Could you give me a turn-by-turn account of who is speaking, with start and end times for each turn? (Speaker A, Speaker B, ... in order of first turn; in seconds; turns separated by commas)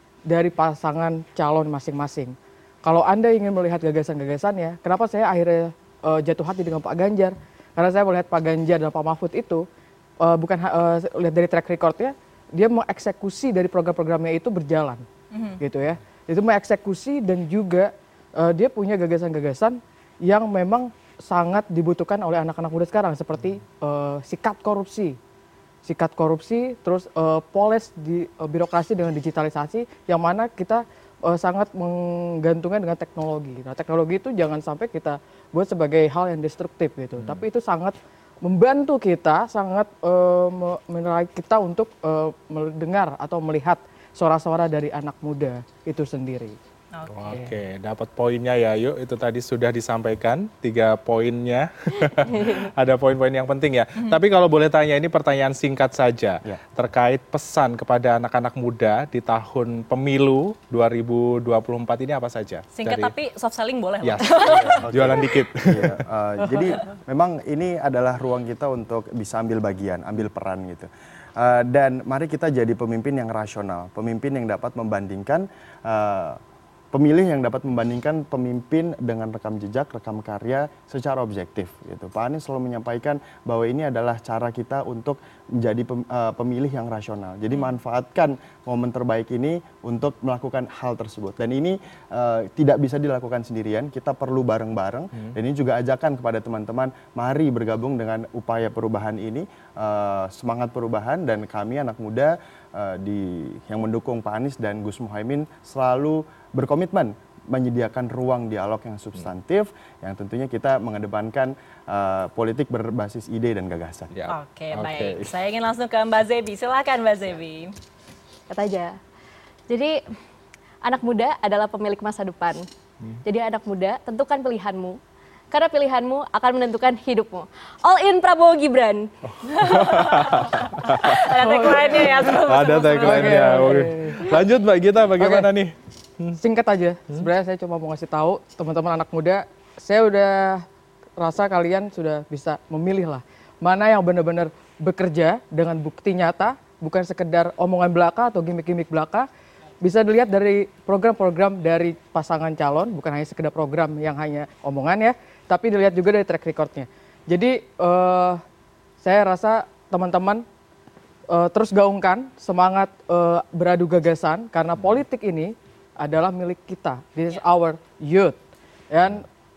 Speaker A: 0.3-9.6, Speaker A: 10.2-15.0, Speaker B: 15.3-15.6, Speaker A: 15.6-25.2, Speaker A: 25.9-46.6, Speaker B: 46.9-47.5, Speaker C: 47.1-63.1, Speaker B: 62.7-64.8, Speaker C: 64.0-66.0, Speaker D: 64.6-76.4, Speaker D: 76.9-114.1, Speaker C: 114.1-115.3, Speaker B: 114.3-117.7, Speaker E: 118.5-119.0, Speaker E: 119.7-120.0, Speaker E: 120.8-122.7, Speaker E: 123.2-125.0, Speaker E: 125.5-129.1, Speaker B: 129.5-133.6, Speaker C: 129.6-136.4, Speaker E: 129.7-130.2, Speaker A: 131.4-132.3, Speaker E: 131.4-132.0, Speaker A: 133.0-134.3, Speaker A: 135.2-135.5, Speaker A: 136.4-140.6, Speaker A: 141.2-149.3, Speaker A: 149.8-158.4, Speaker A: 159.0-160.4, Speaker A: 161.3-168.4, Speaker A: 168.9-169.2